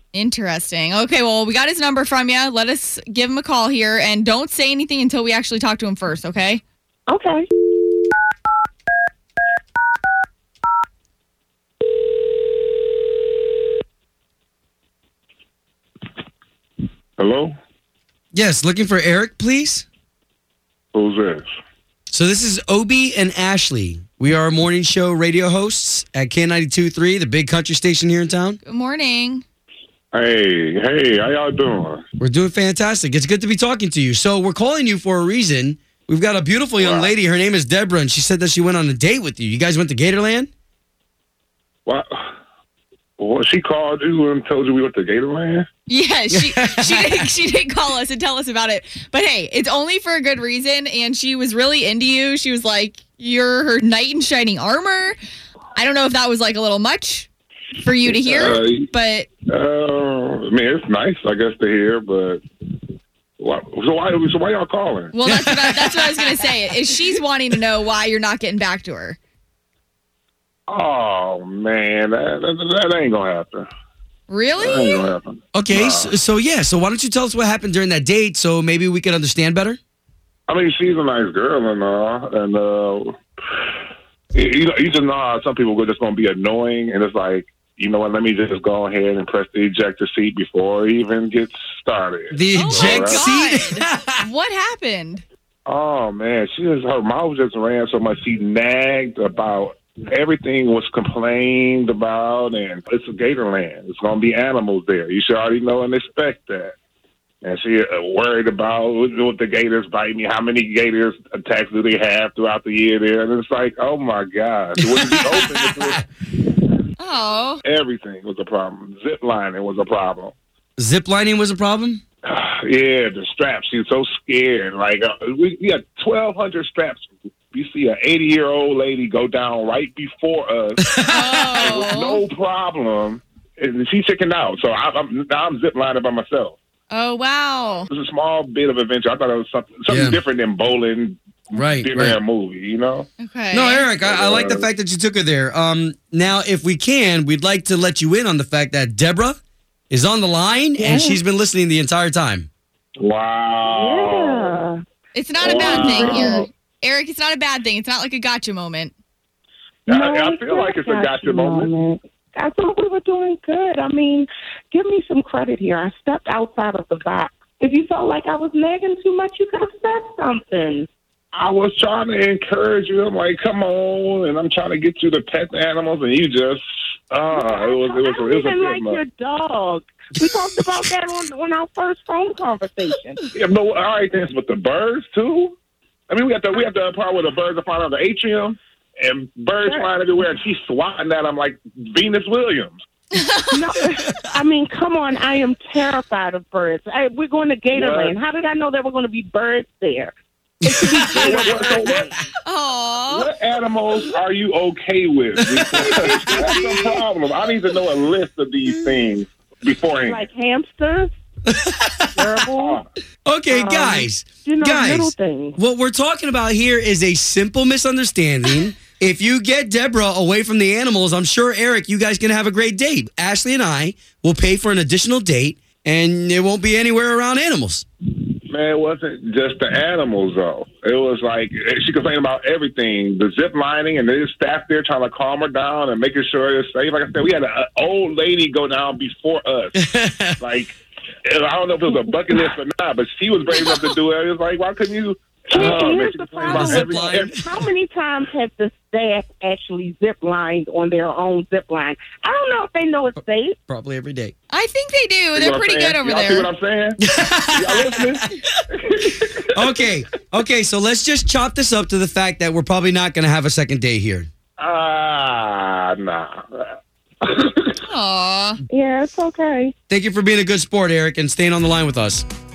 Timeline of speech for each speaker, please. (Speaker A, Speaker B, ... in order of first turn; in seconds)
Speaker A: 0.1-6.6, 28.6-29.4, 45.9-55.2, 55.8-59.3, 65.1-69.2, 74.3-75.1, 92.5-95.2, 117.0-117.6, 131.1-132.2, 136.9-137.9, 143.2-143.9, 155.2-158.9, 193.1-193.6, 202.4-203.3, 243.5-243.9, 254.5-256.5, 267.8-268.6
Speaker B: 7.1-7.5, 150.8-151.2, 153.7-154.8, 155.5-156.5, 159.9-170.9, 177.3-183.2, 193.5-202.1, 210.1-211.1, 212.2-212.8, 213.5-215.6, 245.5-253.6, 268.7-269.7
Speaker C: 17.2-17.6, 20.9-21.5, 30.1-32.0, 36.8-37.1, 41.9-42.3, 43.2-45.7, 58.1-58.9, 59.5-62.4, 63.4-65.1, 70.7-73.7, 74.6-76.1, 80.5-83.7, 84.3-93.3, 95.7-106.7, 107.4-116.0, 117.6-120.3, 122.3-130.8, 131.5-136.6, 137.9-143.1, 144.0-144.6, 153.0-154.6, 155.4-156.4, 159.9-161.7, 171.3-179.0, 183.3-185.6, 186.1-192.8, 197.7-198.2, 201.1-202.1, 203.1-210.2, 212.6-212.9, 228.5-239.8, 240.4-247.3, 255.3-257.0, 257.5-259.4, 264.6-267.8
Speaker D: 18.3-19.9, 22.1-28.6, 32.2-40.5, 46.3-47.2, 65.2-66.5, 75.5-79.8, 92.3-94.2, 114.8-116.0, 120.8-122.0, 130.8-131.7, 139.9-140.2, 141.5-142.2, 143.5-149.4, 149.9-152.5, 200.6-202.2, 205.4-207.0, 211.5-212.4, 213.2-227.8, 239.8-240.4, 245.6-245.9, 246.4-247.6, 253.7-254.3, 257.0-258.2, 259.5-264.3, 269.9-272.2